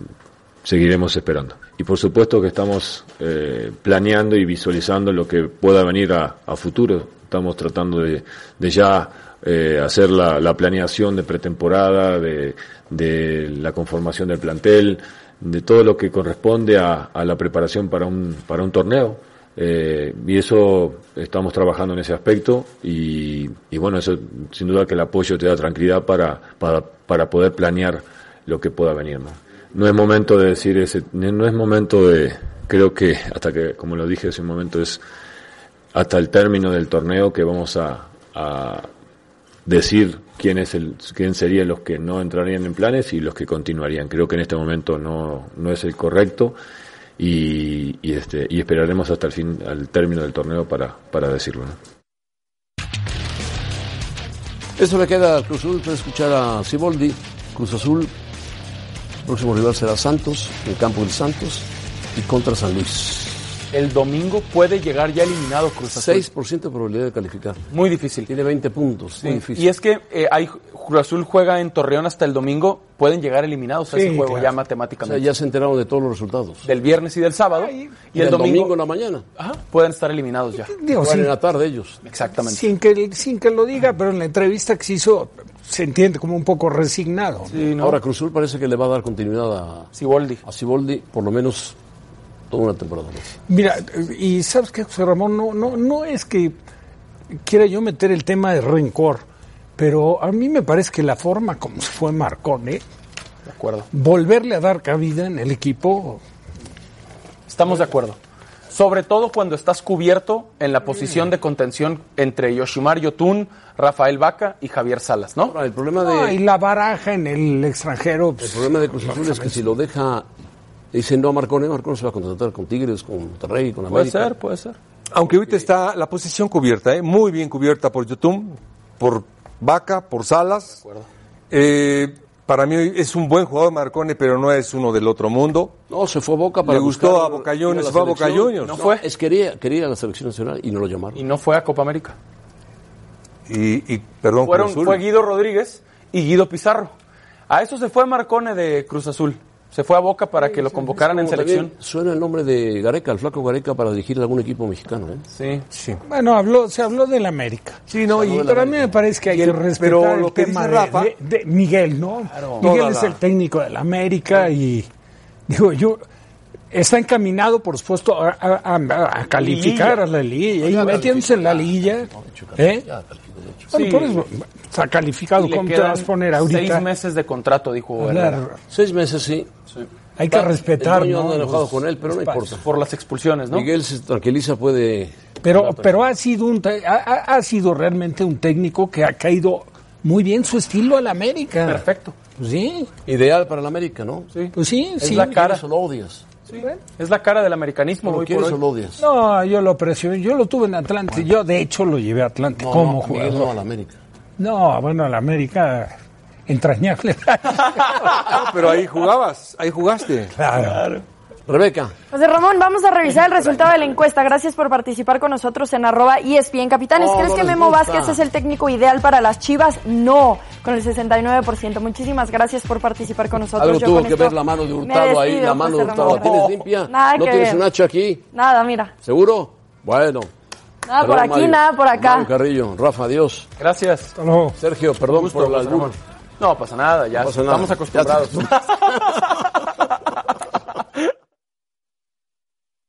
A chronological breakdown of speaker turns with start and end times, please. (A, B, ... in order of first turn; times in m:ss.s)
0:00.6-0:35.0 A
0:35.9-0:38.9 A
0:39.6-0:46.6 A
0:47.2-0:51.7 A
0:54.8-0:58.1 B
0:59.2-1:03.4 B
1:03.7-1:06.2 C
1:05.9-1:07.6 B
1:07.7-1:08.3 C
1:08.3-1:09.7 B
1:09.2-1:15.3 C
1:13.9-1:14.5 D
1:15.0-1:16.6 B
1:16.6-1:18.7 C
1:18.1-1:19.2 B
1:19.4-1:20.7 C
1:20.7-1:21.3 D
1:21.0-1:22.0 B
1:22.0-1:22.7 C
1:22.4-1:27.5 D
1:27.5-1:28.0 C
1:27.8-1:29.9 B
1:29.9-1:30.4 C
1:30.4-1:31.8 B
1:32.5-1:33.3 B
1:33.5-1:36.6 D
1:37.4-1:39.2 D
1:39.8-1:42.8 D
1:43.4-1:43.9 C
1:43.9-1:46.2 D
1:47.5-1:48.2 C
1:48.7-1:55.5 C
1:55.5-1:56.4 B
1:56.0-1:59.5 D
1:58.4-2:00.2 B
2:00.9-2:04.3 B
2:03.9-2:04.8 C
2:05.1-2:10.8 E
2:11.5-2:15.8 E
2:15.9-2:21.2 B
2:16.6-2:18.8 E
2:18.6-2:19.0 C
2:21.1-2:22.2 C
2:23.5-2:24.9 E
2:24.4-2:26.9 C
2:24.6-2:25.0 B
2:27.5-2:31.7 C
2:31.0-2:35.2 B
2:35.3-2:35.6 C
2:35.7-2:36.0 E
2:36.0-2:37.8 D
2:37.9-2:38.5 E
2:38.1-2:39.0 B
2:38.4-2:44.9 D
2:39.3-2:39.6 C
2:39.8-2:41.1 E
2:42.3-2:42.7 C
2:42.6-2:43.1 E
2:45.5-2:46.0 D
2:46.7-2:52.9 D
2:49.3-2:50.1 C
2:50.6-2:51.6 C
2:50.6-2:53.7 B
2:53.7-2:56.8 D
2:53.7-2:54.2 C
2:55.4-2:58.4 C
2:58.0-2:58.6 D
2:58.7-2:59.5 B
2:59.7-3:00.5 C
3:00.2-3:02.6 D
3:00.8-3:02.6 B
3:02.6-3:03.7 C
3:03.5-3:06.0 B
3:05.4-3:12.9 D
3:11.6-3:12.1 C
3:13.0-3:14.3 B
3:14.3-3:15.6 C
3:14.5-3:15.3 D
3:15.0-3:16.2 B
3:16.5-3:18.6 C
3:18.0-3:19.0 B
3:19.0-3:23.5 D
3:22.6-3:24.0 B
3:24.4-3:25.9 D
3:26.5-3:28.2 D
3:28.2-3:30.3 E
3:30.3-3:30.9 D
3:31.5-3:31.9 B
3:32.1-3:47.6 F
3:33.4-3:33.9 B
3:37.0-3:38.2 B
3:43.6-3:48.2 B
3:46.0-3:46.6 C
3:48.3-3:48.9 F
3:49.0-3:50.3 B
3:50.8-3:52.3 F
3:51.0-3:53.5 B
3:53.6-3:54.1 C
3:54.2-3:54.5 D
3:54.6-3:56.0 B
3:55.0-3:59.2 C
3:57.1-3:59.2 B